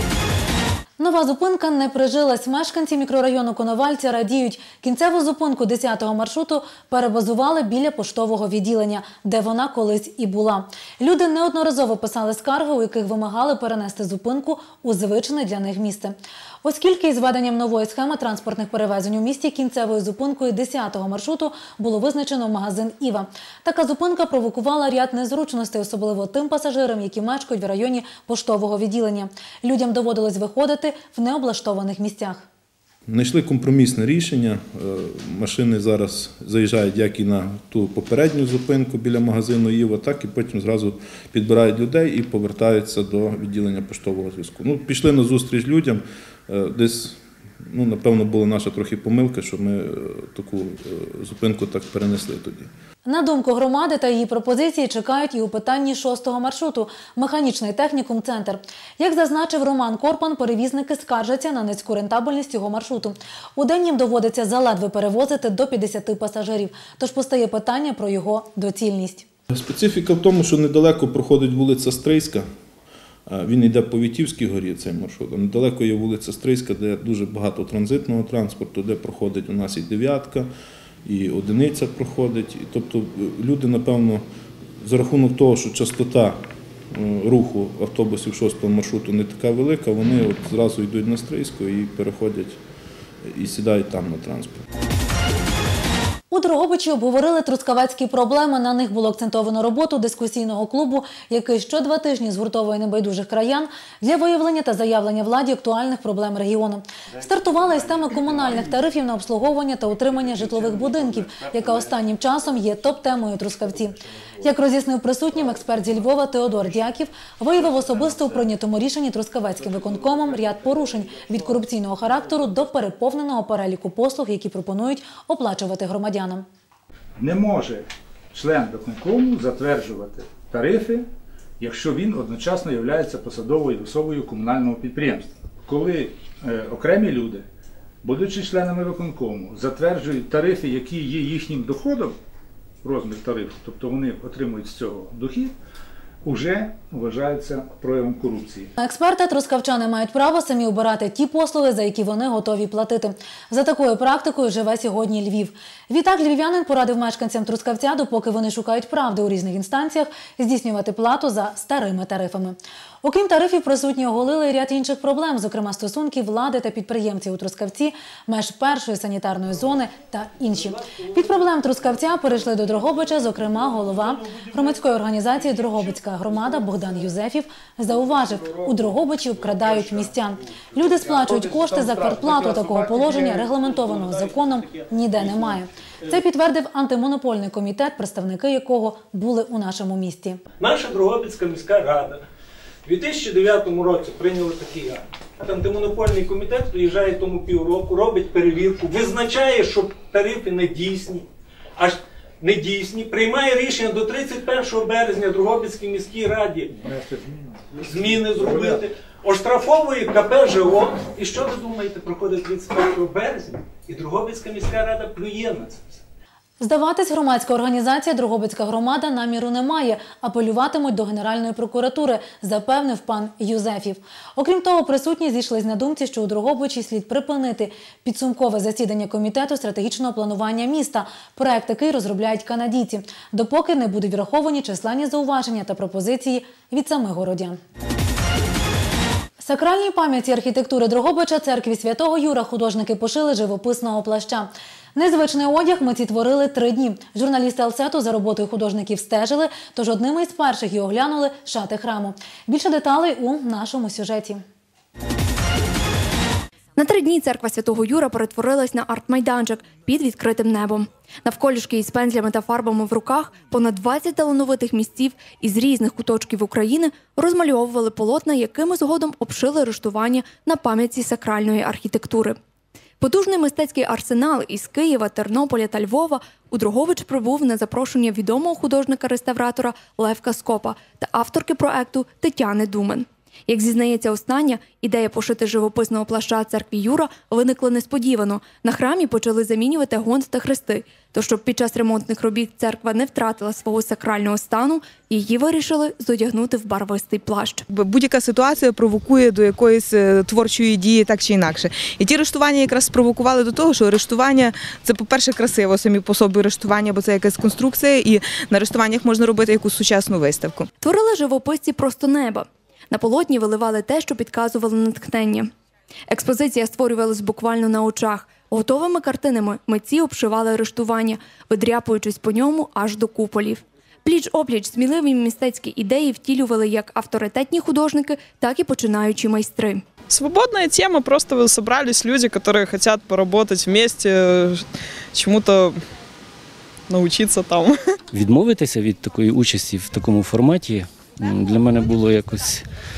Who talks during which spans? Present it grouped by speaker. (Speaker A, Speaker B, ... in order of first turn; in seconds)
Speaker A: 1.0-32.4, 53.0-69.2, 96.3-126.5, 148.8-190.4, 216.6-237.6, 239.4-254.4
Speaker B: 33.1-52.7, 69.5-72.5, 73.3-80.5, 81.0-84.2, 84.8-92.6, 93.2-94.6
Speaker C: 127.2-131.1, 131.6-137.4, 138.0-142.2, 142.8-145.5, 146.2-148.7, 206.8-207.4, 208.0-208.8
Speaker D: 190.6-192.2, 192.8-201.2, 201.8-206.7, 207.8-215.8
Speaker E: 256.8-272.4, 273.0-297.6, 310.8-315.5, 316.1-329.8
Speaker F: 297.7-310.7, 330.1-335.8, 336.9-337.8
Speaker G: 338.1-342.7